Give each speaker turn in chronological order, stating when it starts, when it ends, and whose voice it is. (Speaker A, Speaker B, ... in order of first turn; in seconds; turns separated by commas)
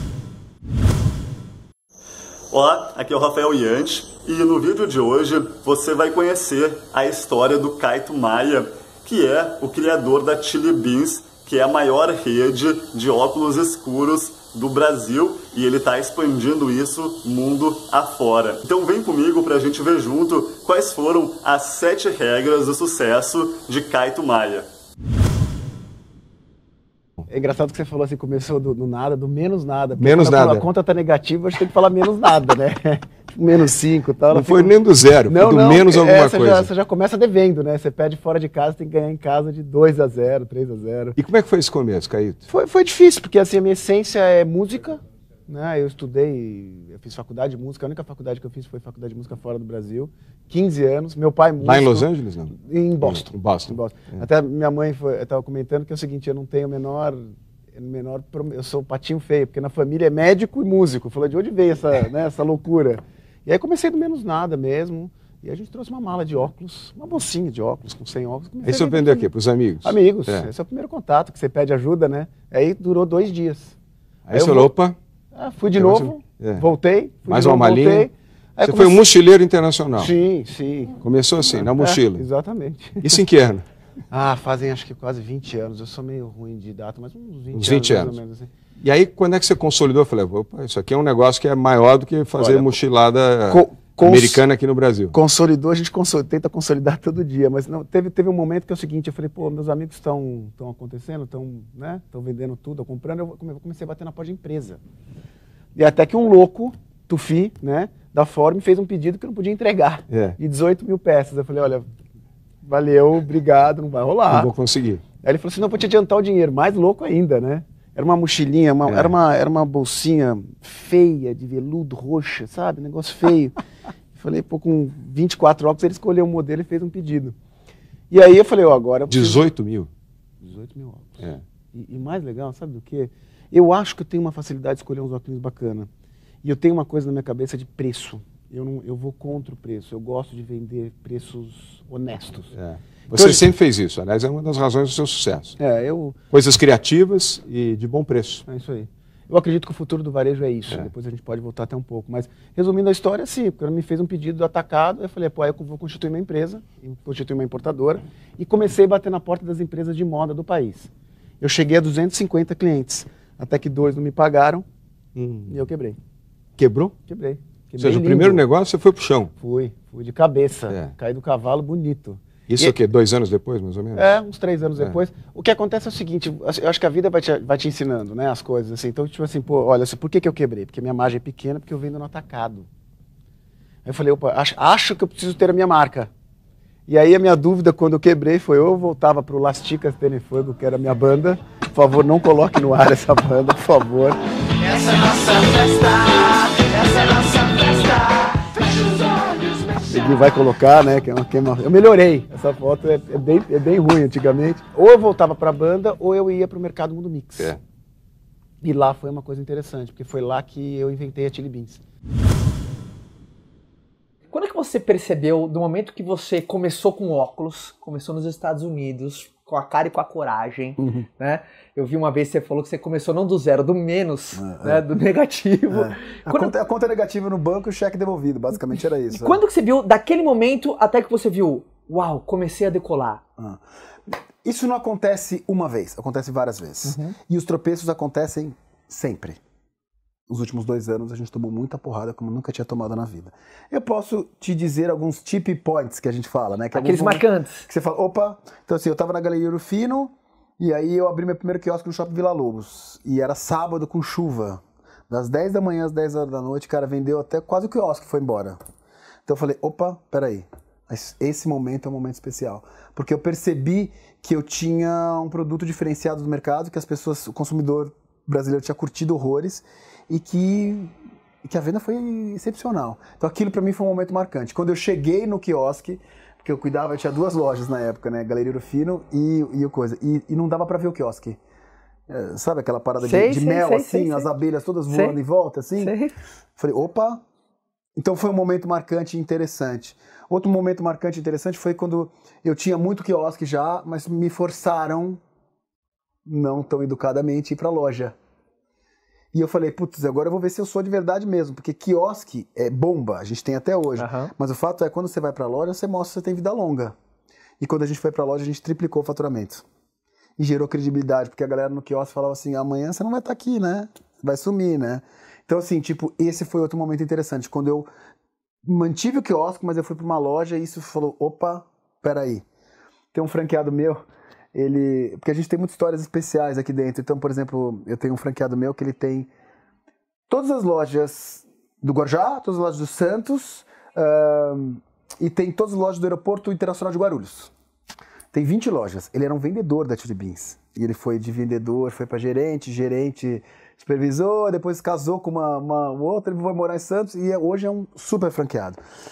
Speaker A: 2.5-24.7, Speaker B: 27.3-34.7, Speaker C: 30.0-30.6, Speaker C: 34.3-36.7, Speaker B: 35.3-41.2, Speaker C: 41.2-42.5, Speaker B: 42.5-69.3, Speaker C: 51.6-54.2, Speaker C: 68.6-70.5, Speaker B: 69.8-73.7, Speaker C: 74.3-75.0, Speaker B: 74.3-74.7, Speaker B: 75.3-79.0, Speaker C: 75.8-76.7, Speaker C: 77.3-78.1, Speaker C: 78.6-80.1, Speaker B: 80.0-81.0, Speaker C: 81.0-82.2, Speaker B: 81.5-83.2, Speaker C: 83.0-83.6, Speaker B: 84.1-88.5, Speaker C: 87.5-88.2, Speaker C: 88.8-95.1, Speaker B: 92.4-92.7, Speaker B: 93.5-94.4, Speaker B: 95.1-104.8, Speaker B: 105.8-111.8, Speaker C: 110.1-110.4, Speaker B: 112.6-114.5, Speaker C: 114.3-115.0, Speaker B: 115.2-123.6, Speaker C: 118.8-119.1, Speaker B: 124.2-127.3, Speaker B: 128.1-129.4, Speaker C: 129.1-129.9, Speaker B: 130.4-135.9, Speaker B: 136.4-142.5, Speaker C: 142.5-145.6, Speaker B: 143.1-143.4, Speaker B: 145.6-146.2, Speaker C: 146.3-148.4, Speaker B: 148.5-160.9, Speaker B: 161.4-164.6, Speaker C: 165.1-165.6, Speaker B: 165.5-166.0, Speaker C: 166.6-166.9, Speaker B: 167.1-168.4, Speaker C: 167.8-169.3, Speaker B: 169.4-172.8, Speaker C: 172.5-174.1, Speaker B: 173.9-182.7, Speaker B: 183.8-186.1, Speaker B: 186.9-194.2, Speaker D: 194.7-196.2, Speaker B: 194.9-197.9, Speaker B: 199.7-207.5, Speaker B: 208.6-211.8, Speaker E: 214.3-226.5, Speaker D: 220.8-221.1, Speaker D: 224.3-224.8, Speaker D: 225.7-229.4, Speaker E: 229.1-233.2, Speaker D: 233.4-239.4, Speaker E: 236.8-237.1, Speaker D: 240.3-258.6, Speaker E: 246.7-247.6, Speaker D: 259.2-270.9, Speaker D: 271.4-281.4, Speaker D: 282.1-285.9, Speaker E: 283.0-284.3, Speaker E: 284.9-285.2, Speaker E: 285.8-286.1, Speaker D: 286.6-287.2, Speaker D: 287.9-295.2, Speaker D: 296.2-298.1, Speaker D: 299.3-306.9, Speaker E: 304.0-304.3, Speaker D: 307.6-309.6, Speaker D: 310.4-317.9, Speaker D: 318.6-322.4, Speaker D: 323.1-329.3, Speaker D: 330.3-337.5, Speaker D: 338.3-348.8